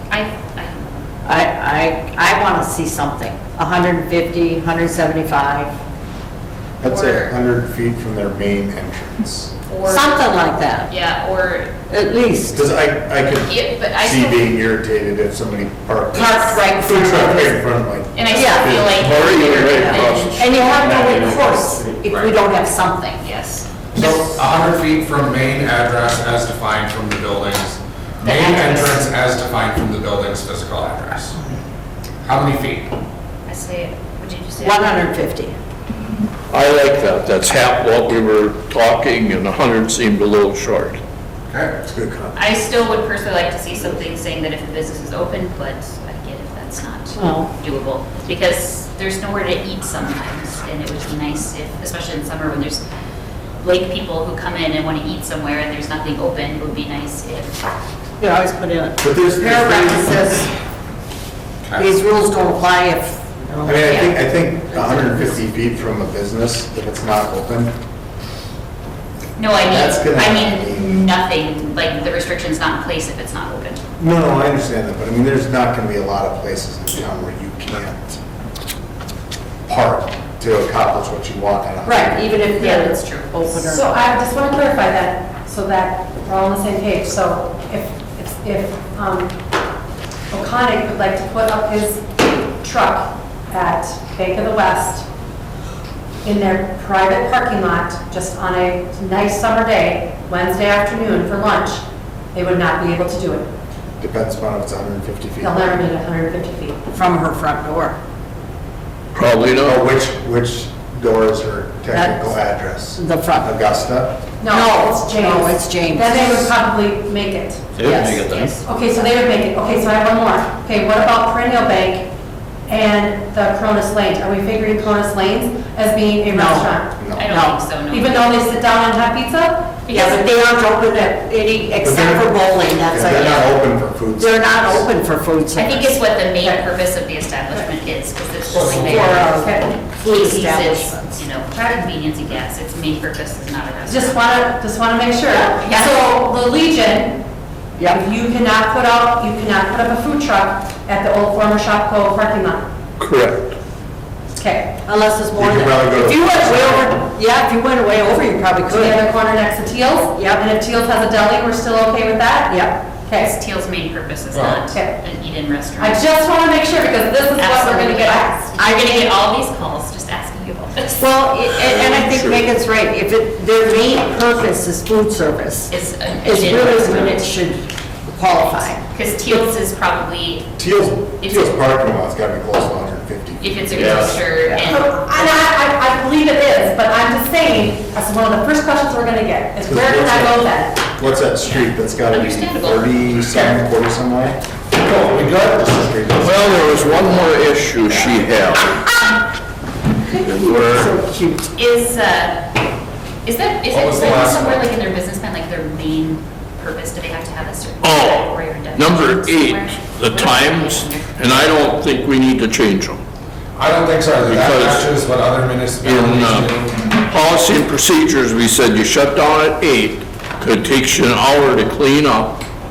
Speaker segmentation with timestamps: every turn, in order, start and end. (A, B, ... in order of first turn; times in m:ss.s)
0:00.1-0:01.0 A
0:01.2-0:05.8 B
0:06.8-0:09.5 C
0:06.8-0:07.3 A
0:09.6-0:10.3 A
0:09.8-0:10.9 B
0:10.9-0:11.7 A
0:11.9-0:12.6 B
0:12.5-0:19.2 C
0:13.4-0:14.6 A
0:16.1-0:17.6 B
0:18.1-0:20.5 A
0:18.3-0:18.7 B
0:18.9-0:21.4 D
0:19.7-0:23.2 B
0:20.6-0:22.0 C
0:22.0-0:22.3 E
0:23.2-0:23.8 A
0:23.9-0:31.3 E
0:28.2-0:29.1 A
0:32.2-0:32.9 E
0:33.4-0:35.0 A
0:34.6-0:35.6 B
0:36.5-0:41.0 D
0:41.5-0:41.7 E
0:41.8-0:42.7 C
0:42.4-0:52.8 A
0:47.2-0:47.5 B
0:53.6-0:57.6 A
0:58.2-1:00.5 B
0:59.0-1:00.3 C
1:01.6-1:01.9 E
1:01.7-1:05.4 B
1:03.6-1:07.8 C
1:09.4-1:13.8 A
1:09.6-1:11.1 C
1:14.0-1:18.2 C
1:19.6-1:22.3 C
1:21.8-1:24.1 B
1:22.6-1:23.3 A
1:23.5-1:29.4 F
1:30.3-1:35.0 F
1:36.2-1:43.5 F
1:44.0-1:45.8 C
1:45.4-1:46.8 F
1:46.9-1:48.0 B
1:49.1-1:49.8 D
1:49.6-1:54.2 C
1:51.9-1:52.3 B
1:52.9-1:53.6 B
1:54.4-1:58.0 F
1:54.5-1:56.5 B
1:57.8-1:58.6 D
1:57.8-1:58.6 B
1:58.6-2:02.1 F
2:02.7-2:06.9 F
2:06.3-2:06.8 B
2:07.0-2:07.3 C
2:07.2-2:08.4 A
2:07.3-2:07.6 B
2:07.9-2:10.3 F
2:09.8-2:10.2 A
2:09.9-2:13.6 B
2:11.8-2:14.9 C
2:14.2-2:16.0 B
2:15.6-2:19.2 A
2:18.4-2:19.1 E
2:18.8-2:21.2 B
2:18.8-2:19.7 F
2:19.9-2:24.4 A
2:21.5-2:21.8 F
2:23.8-2:27.2 F
2:25.6-2:26.1 A
2:27.8-2:28.0 B
2:27.8-2:32.7 F
2:33.0-2:33.6 D
2:34.4-2:34.8 F
2:34.8-2:39.0 B
2:35.3-2:36.9 C
2:38.6-2:43.3 F
2:40.1-2:40.4 B
2:42.5-2:42.8 B
2:43.2-2:46.1 A
2:44.3-2:44.6 E
2:44.7-2:45.0 F
2:45.8-2:48.5 F
2:47.4-2:51.2 A
2:48.6-2:49.1 B
2:51.0-2:55.7 B
2:51.6-2:52.4 D
2:55.7-2:57.3 A
2:56.2-2:58.8 B
2:58.9-3:00.6 A
3:00.6-3:04.2 C
3:01.2-3:01.6 A
3:03.4-3:05.5 A
3:04.6-3:10.9 F
3:09.6-3:17.5 C
3:11.0-3:13.6 A
3:16.2-3:18.8 D
3:17.9-3:18.3 A
3:20.1-3:21.5 B
3:20.2-3:20.9 D
3:21.5-3:22.5 A
3:23.2-3:31.6 A
3:23.7-3:24.7 E
3:27.8-3:33.0 D
3:33.6-3:37.0 E
3:34.2-3:34.9 D
3:35.8-3:42.4 D